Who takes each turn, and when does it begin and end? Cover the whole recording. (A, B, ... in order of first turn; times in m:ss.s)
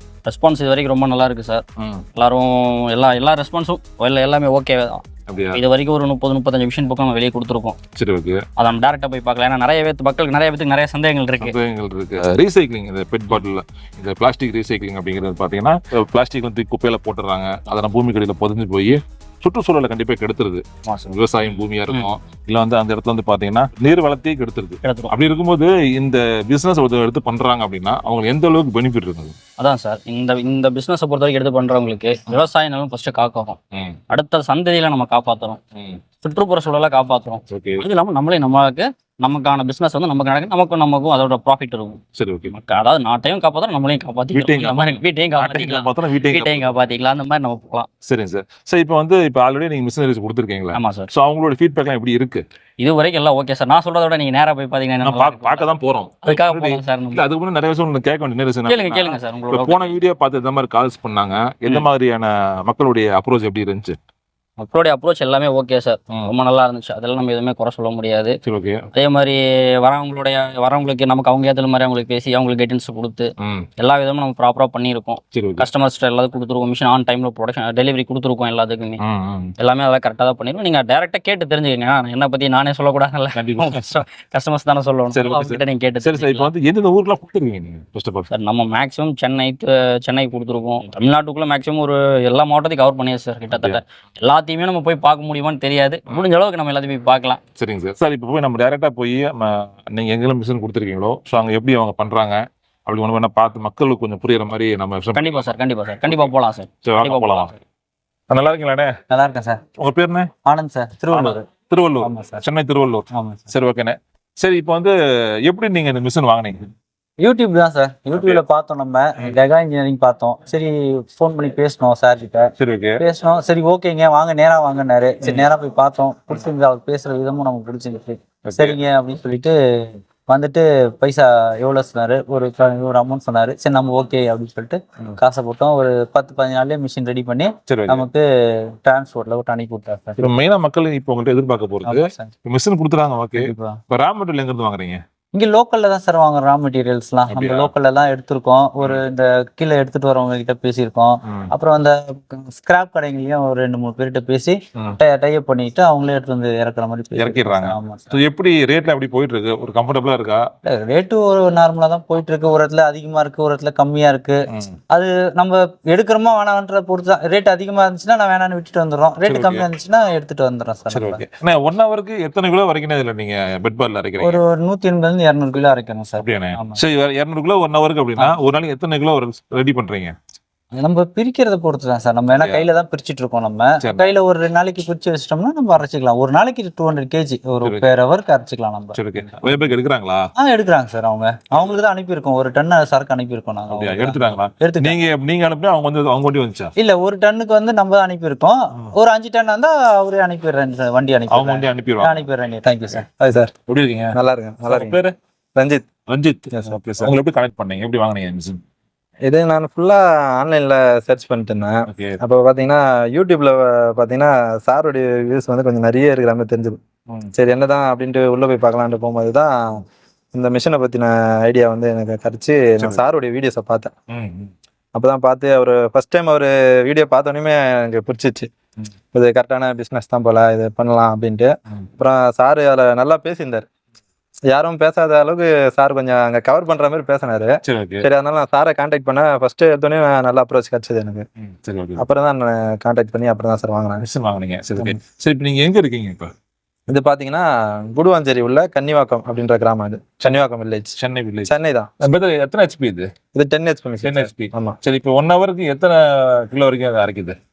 0:00.2-0:01.6 A
0:01.8-0:02.0 B
0:02.1-0:05.0 A
0:05.3-0:05.6 B
0:05.5-0:07.8 A
0:08.0-0:08.4 B
0:08.6-0:11.6 A
0:11.4-0:29.4 B
0:21.9-0:22.1 A
0:29.6-0:33.6 A
0:33.7-0:34.0 B
0:34.1-0:35.6 A
0:35.7-0:36.0 B
0:36.2-0:47.9 A
0:37.5-0:37.8 B
0:42.2-0:42.5 B
0:44.3-0:46.7 B
0:48.0-0:52.4 B
0:50.7-0:51.1 A
0:52.8-0:55.7 A
0:55.0-1:04.0 B
0:56.2-0:57.2 A
0:58.6-0:59.8 A
1:04.6-1:08.4 A
1:08.4-1:08.8 B
1:08.9-1:19.0 A
1:13.4-1:13.7 B
1:15.3-1:15.7 B
1:19.0-1:19.5 B
1:19.6-1:26.5 A
1:23.3-1:24.0 B
1:25.1-1:28.3 B
1:28.3-1:37.4 A
1:33.5-1:33.8 B
1:37.6-1:46.3 B
1:45.1-1:47.6 A
1:46.8-1:47.5 B
1:48.3-1:48.9 B
1:49.1-1:49.6 C
1:49.8-1:50.3 B
1:50.4-1:51.5 C
1:51.1-1:56.7 B
1:52.0-1:52.4 C
1:53.1-1:53.4 C
1:57.2-2:20.2 C
1:58.1-1:58.4 B
2:02.6-2:03.0 B
2:05.2-2:05.5 B
2:08.4-2:08.8 B
2:17.7-2:18.1 B
2:20.2-2:25.0 B
2:21.8-2:22.3 C
2:23.4-2:23.8 C
2:25.3-2:38.1 C
2:27.3-2:27.7 B
2:31.2-2:31.5 B
2:37.1-2:40.5 B
2:40.6-2:51.2 C
2:44.5-2:44.8 B
2:49.2-2:49.7 B
2:50.9-2:54.4 B
2:54.2-2:56.8 C
2:56.2-3:00.2 B
3:00.7-3:09.0 C
3:02.3-3:02.7 B
3:03.8-3:04.1 B
3:07.6-3:07.9 B
3:08.9-3:10.3 B
3:10.4-3:15.0 C
3:13.7-3:16.7 B
3:16.8-3:23.0 C
3:21.3-3:22.3 B
3:23.2-3:23.5 D
3:23.7-3:25.1 B
3:24.1-3:25.0 D
3:25.6-3:25.8 D
3:26.1-3:28.6 B
3:26.5-3:27.1 D
3:29.3-3:36.8 D
3:31.9-3:32.2 B
3:37.3-3:39.8 D
3:40.3-3:43.9 D
3:44.1-3:44.5 B
3:44.9-3:48.5 D
3:49.1-3:53.6 D
3:54.5-4:01.2 D
3:57.6-3:58.1 B
4:01.4-4:02.0 B
4:02.0-4:04.0 D
4:04.0-4:06.3 B
4:06.9-4:10.9 D
4:11.0-4:13.1 B
4:11.4-4:11.9 D
4:13.3-4:14.8 D
4:14.0-4:17.4 B